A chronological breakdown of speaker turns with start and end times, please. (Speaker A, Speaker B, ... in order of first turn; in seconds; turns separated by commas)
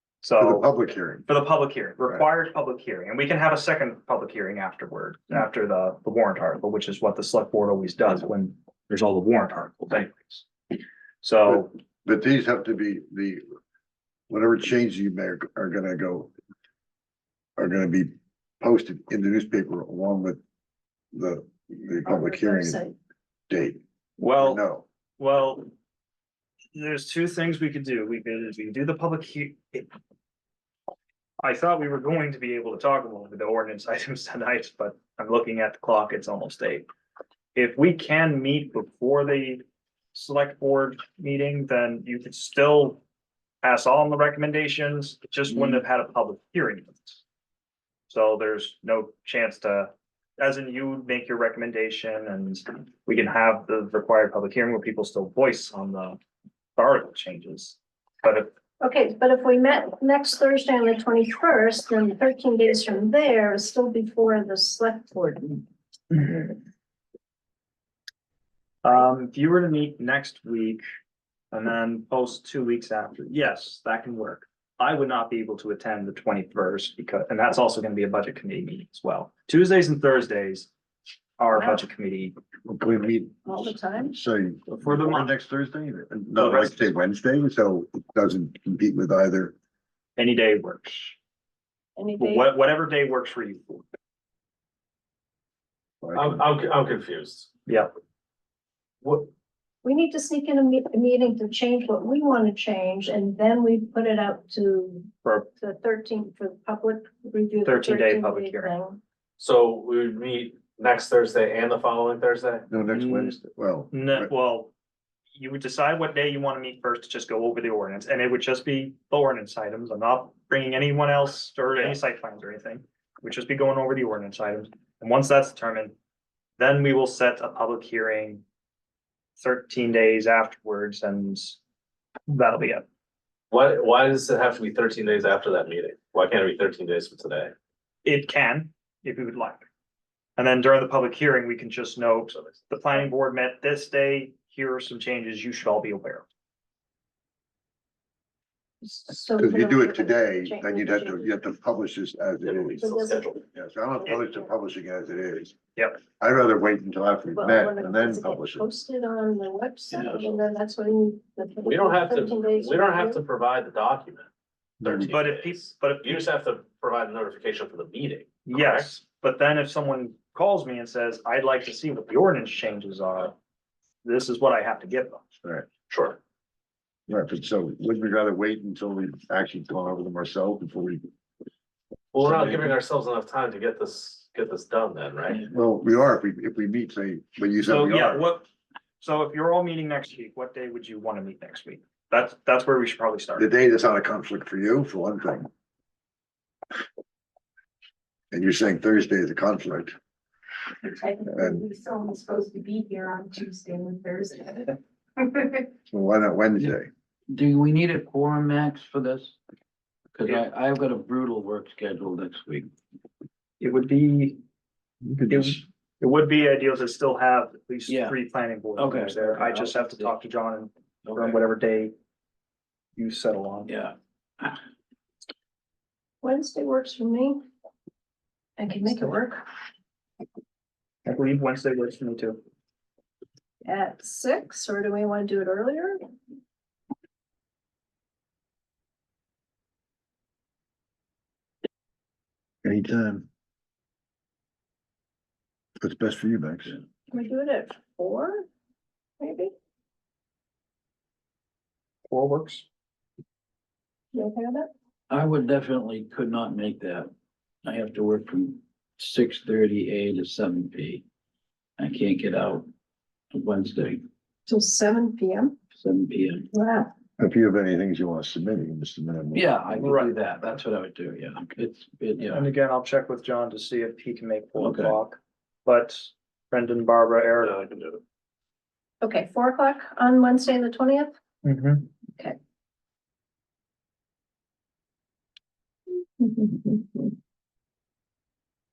Speaker A: 0.2-0.7, Speaker B: 0.4-1.3, Speaker A: 1.2-10.4, Speaker A: 11.2-11.7, Speaker B: 11.5-13.4, Speaker B: 14.3-16.3, Speaker B: 17.6-20.4, Speaker B: 21.1-22.8, Speaker C: 22.0-22.9, Speaker B: 23.5-23.8, Speaker A: 24.2-24.6, Speaker B: 24.4-24.8, Speaker A: 25.2-25.7, Speaker A: 26.7-29.9, Speaker A: 31.4-36.9, Speaker A: 37.5-39.6, Speaker A: 40.1-43.0, Speaker A: 43.6-47.2, Speaker A: 48.1-56.2, Speaker A: 56.8-58.5, Speaker C: 58.8-65.7, Speaker A: 68.8-70.8, Speaker A: 71.5-80.7, Speaker A: 81.4-82.3, Speaker C: 81.5-81.8, Speaker B: 82.7-89.5, Speaker C: 83.5-84.1, Speaker A: 84.8-85.3, Speaker A: 86.4-86.8, Speaker A: 90.2-91.2, Speaker C: 92.0-92.5, Speaker A: 92.2-93.8, Speaker B: 96.0-96.4, Speaker D: 96.1-97.5, Speaker D: 99.0-99.3, Speaker C: 99.8-109.0, Speaker A: 105.2-105.5, Speaker A: 107.6-108.7, Speaker D: 109.4-112.7, Speaker B: 112.7-114.3, Speaker A: 112.9-113.4, Speaker A: 113.9-114.7, Speaker A: 115.4-125.9, Speaker A: 126.6-128.4, Speaker A: 129.4-131.6, Speaker A: 132.3-132.8, Speaker D: 133.5-137.5, Speaker A: 138.0-139.7, Speaker A: 140.4-146.2, Speaker C: 148.8-151.3, Speaker B: 149.4-152.8, Speaker D: 152.4-153.4, Speaker C: 152.8-153.3, Speaker B: 153.5-155.6, Speaker C: 154.1-154.5, Speaker B: 156.2-158.6, Speaker C: 157.3-163.2, Speaker D: 159.9-160.4, Speaker D: 161.6-164.3, Speaker B: 164.8-165.1, Speaker D: 164.8-168.9, Speaker A: 165.1-166.2, Speaker A: 168.4-173.3, Speaker A: 174.0-175.2, Speaker D: 175.9-176.2, Speaker B: 177.1-181.0, Speaker D: 182.1-185.4, Speaker B: 182.2-182.7, Speaker B: 185.5-188.3, Speaker A: 187.6-188.4, Speaker A: 189.0-193.5, Speaker B: 193.4-195.5, Speaker B: 198.3-199.9, Speaker E: 200.8-205.6, Speaker B: 201.3-201.7, Speaker B: 205.9-206.9, Speaker F: 207.3-209.4, Speaker F: 210.1-212.7, Speaker A: 213.6-214.4, Speaker B: 215.0-215.6, Speaker A: 215.3-221.9, Speaker F: 217.9-218.2, Speaker F: 218.8-220.1, Speaker F: 221.0-221.4, Speaker A: 222.9-223.7, Speaker F: 223.7-224.6, Speaker C: 226.2-227.4, Speaker C: 228.6-229.4, Speaker A: 231.1-232.4, Speaker C: 233.6-236.0, Speaker B: 242.6-243.3, Speaker B: 245.8-246.8, Speaker C: 247.1-248.4, Speaker C: 249.2-249.5, Speaker A: 252.1-252.7, Speaker C: 254.1-254.7, Speaker F: 255.1-257.1, Speaker F: 257.6-261.0, Speaker F: 261.8-262.6, Speaker F: 263.3-264.0, Speaker C: 264.5-265.6, Speaker F: 265.7-266.5, Speaker C: 266.5-266.9, Speaker B: 267.2-269.5, Speaker F: 269.3-272.4, Speaker A: 269.8-270.1, Speaker A: 272.3-277.7, Speaker F: 274.6-275.0, Speaker D: 277.5-277.9, Speaker C: 279.0-281.1, Speaker A: 281.4-281.9, Speaker C: 286.2-286.9